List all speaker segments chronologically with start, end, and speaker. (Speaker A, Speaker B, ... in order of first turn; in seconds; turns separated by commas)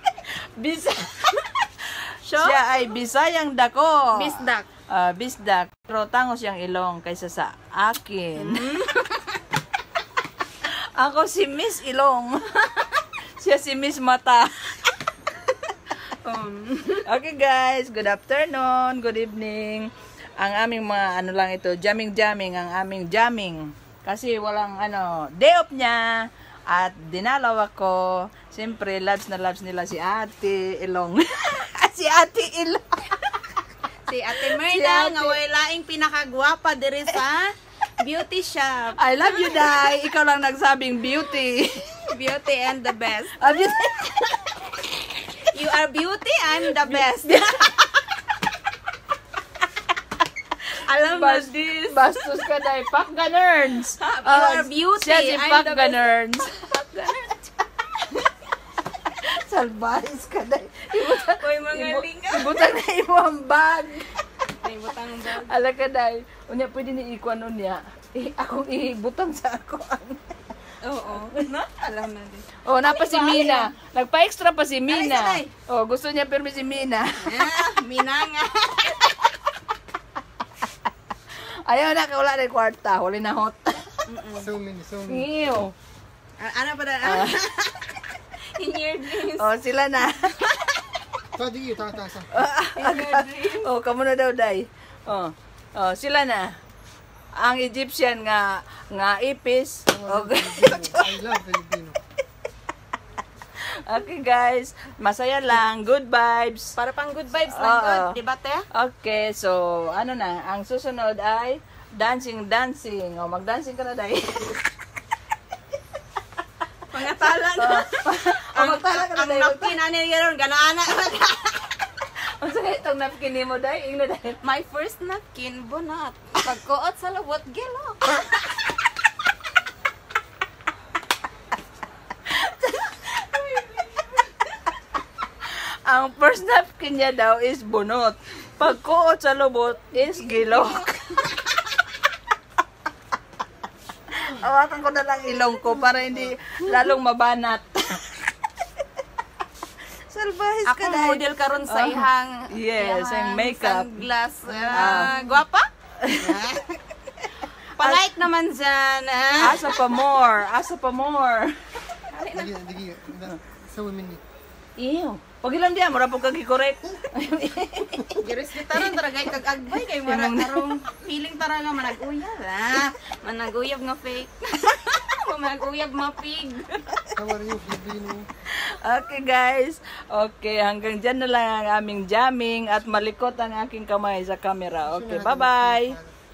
Speaker A: 0.6-1.5, Speaker B: 2.2-2.6, Speaker A: 2.4-4.3, Speaker B: 4.1-4.7, Speaker A: 4.9-8.6, Speaker B: 8.4-9.4, Speaker A: 10.6-14.9, Speaker B: 16.2-17.0, Speaker A: 17.0-33.4, Speaker B: 34.1-39.0, Speaker A: 34.4-35.4, Speaker A: 39.0-41.9, Speaker B: 42.1-43.4, Speaker A: 43.4-44.5, Speaker B: 45.5-48.0, Speaker A: 46.8-47.7, Speaker B: 50.9-52.2, Speaker A: 51.0-56.7, Speaker B: 54.0-56.1, Speaker B: 56.6-57.5, Speaker A: 59.0-64.1, Speaker B: 61.0-62.6, Speaker B: 64.6-65.6, Speaker A: 65.4-70.2, Speaker B: 70.8-73.7, Speaker A: 71.1-71.5, Speaker A: 72.6-77.6, Speaker B: 74.9-75.5, Speaker B: 77.2-79.1, Speaker A: 81.7-84.0, Speaker B: 84.1-84.5, Speaker C: 84.4-85.3, Speaker A: 85.1-85.7, Speaker B: 86.4-89.5, Speaker A: 87.0-87.4, Speaker A: 89.3-90.4, Speaker C: 91.3-92.3, Speaker A: 92.3-96.5, Speaker B: 92.7-93.7, Speaker A: 97.4-101.2, Speaker C: 99.9-102.0, Speaker A: 103.8-106.7, Speaker B: 106.8-108.7, Speaker A: 107.5-108.2, Speaker A: 108.7-114.7, Speaker B: 116.9-121.7, Speaker A: 117.5-119.7, Speaker A: 122.4-124.4, Speaker B: 124.4-128.2, Speaker A: 132.3-134.0, Speaker A: 135.4-141.3, Speaker A: 144.2-148.2, Speaker A: 150.1-154.1, Speaker B: 150.7-156.8, Speaker A: 154.7-155.2, Speaker A: 156.0-156.3, Speaker B: 157.8-159.8, Speaker A: 157.8-158.0, Speaker A: 159.4-161.6, Speaker B: 162.1-162.6, Speaker C: 162.3-164.2, Speaker A: 164.8-169.0, Speaker B: 168.2-176.9, Speaker A: 170.0-170.7, Speaker C: 177.2-178.3, Speaker A: 178.5-186.0, Speaker C: 184.8-186.1